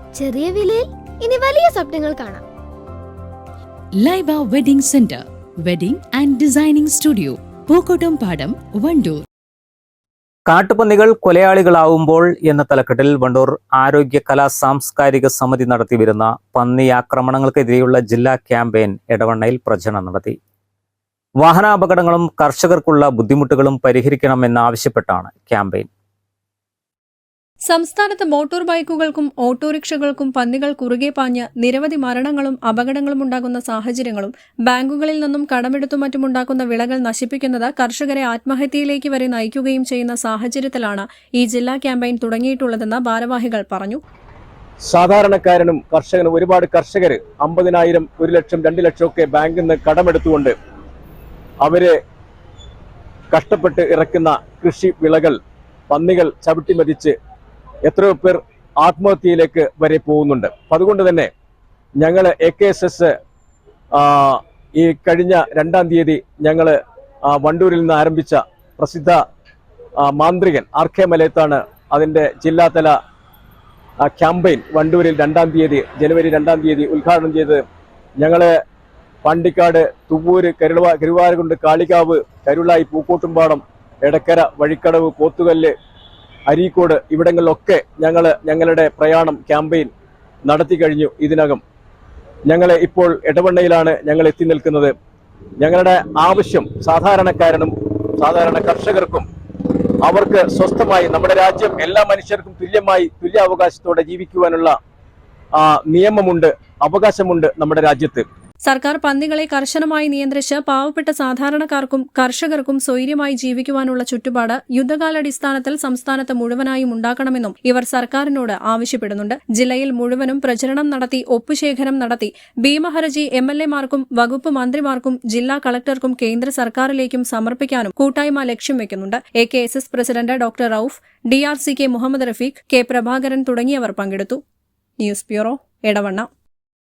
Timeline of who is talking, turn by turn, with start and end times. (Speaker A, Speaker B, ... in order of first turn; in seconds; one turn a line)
Speaker A: 0.2-2.4
Speaker B: 4.0-9.2
Speaker C: 10.5-20.4
Speaker C: 21.4-25.9
Speaker D: 27.7-44.0
Speaker E: 44.8-50.5
Speaker E: 51.6-52.0
Speaker E: 53.3-55.4
Speaker E: 55.9-57.1
Speaker E: 57.8-61.3
Speaker E: 62.0-63.1
Speaker E: 63.9-69.2
Speaker E: 70.0-73.0
Speaker E: 74.0-77.6
Speaker E: 78.2-78.6
Speaker E: 79.2-85.7
Speaker E: 86.5-89.9
Speaker E: 90.5-91.6
Speaker E: 92.5-94.9
Speaker E: 95.6-99.2
Speaker E: 100.0-104.8
Speaker E: 105.6-108.2
Speaker D: 108.6-134.4
Speaker D: 135.0-136.3